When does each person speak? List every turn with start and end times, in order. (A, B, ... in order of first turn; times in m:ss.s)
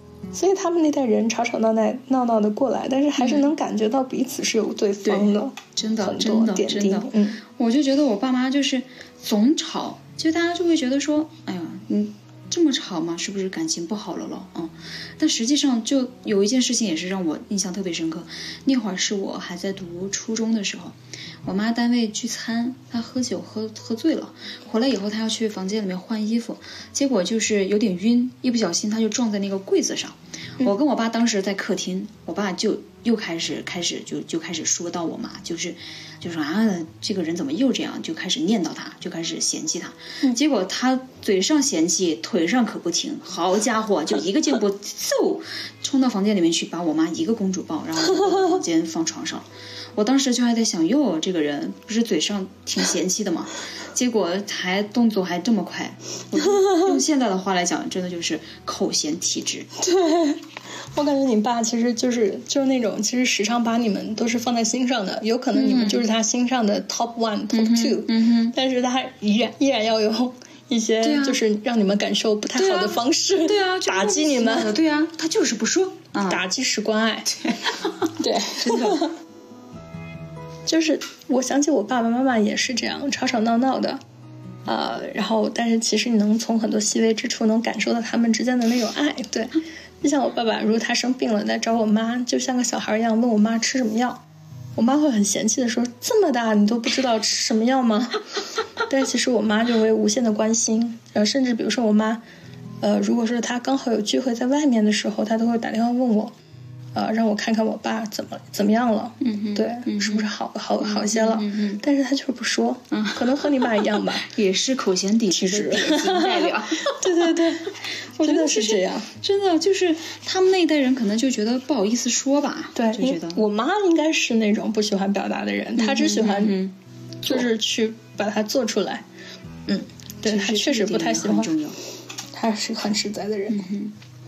0:00.3-0:07.4 A
0:03.2-0:03.5 B
0:05.0-0:59.7 B
0:56.6-0:56.9 A
0:59.8-1:00.4 A
1:00.9-1:14.7 A
1:05.5-1:06.0 B
1:07.5-1:08.6 B
1:11.0-1:11.4 B
1:12.5-1:16.4 B
1:16.3-1:17.3 A
1:17.3-1:19.1 B
1:18.2-1:19.1 A
1:20.6-1:24.0 A
1:24.6-1:34.2 A
1:34.8-1:38.2 A
1:38.8-1:42.2 A
1:42.8-1:46.3 A
1:46.9-1:54.3 A
1:49.2-1:51.8 B
1:52.9-2:03.4 B
1:55.3-1:59.1 A
2:02.7-2:06.6 A
2:05.8-2:07.5 B
2:07.2-2:09.0 A
2:09.7-2:11.5 A
2:10.2-2:11.8 B
2:12.3-2:13.6 A
2:13.5-2:13.9 B